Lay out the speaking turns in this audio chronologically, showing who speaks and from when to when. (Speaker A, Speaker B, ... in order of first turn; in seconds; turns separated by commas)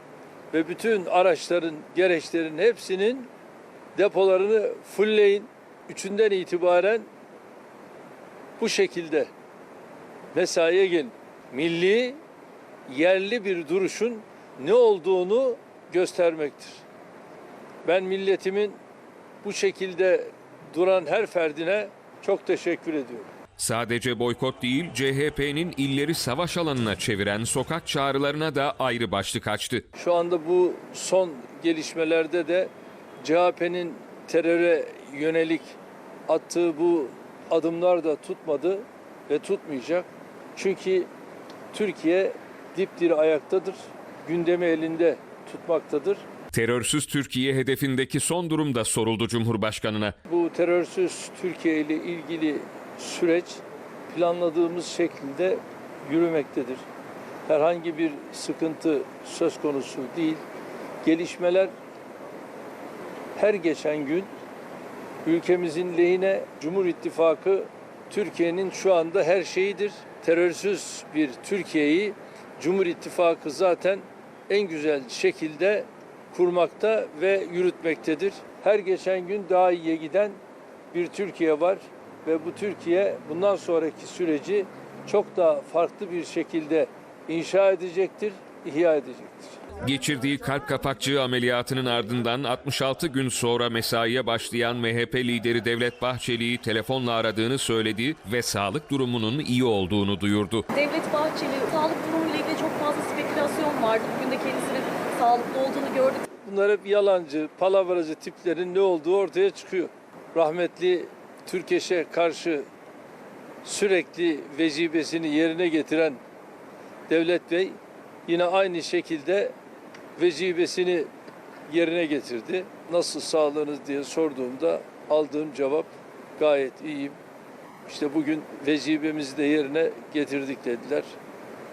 Speaker A: 0.5-3.3, Speaker A: 4.0-7.1, Speaker A: 8.6-9.3, Speaker A: 10.3-12.2, Speaker A: 12.9-16.8, Speaker A: 17.9-18.8, Speaker A: 19.4-23.3, Speaker B: 23.6-29.8, Speaker A: 30.0-35.7, Speaker A: 36.3-41.1, Speaker A: 41.7-46.2, Speaker B: 46.5-50.1, Speaker A: 50.3-56.8, Speaker A: 57.5-60.4, Speaker A: 61.0-61.7, Speaker A: 63.4-64.3, Speaker A: 65.2-80.4, Speaker A: 80.9-89.6, Speaker B: 89.8-100.7, Speaker C: 100.7-106.3, Speaker A: 106.4-112.7, Speaker A: 113.6-116.2, Speaker A: 117.1-119.5, Speaker A: 120.2-121.1, Speaker A: 121.7-127.2, Speaker A: 127.9-131.1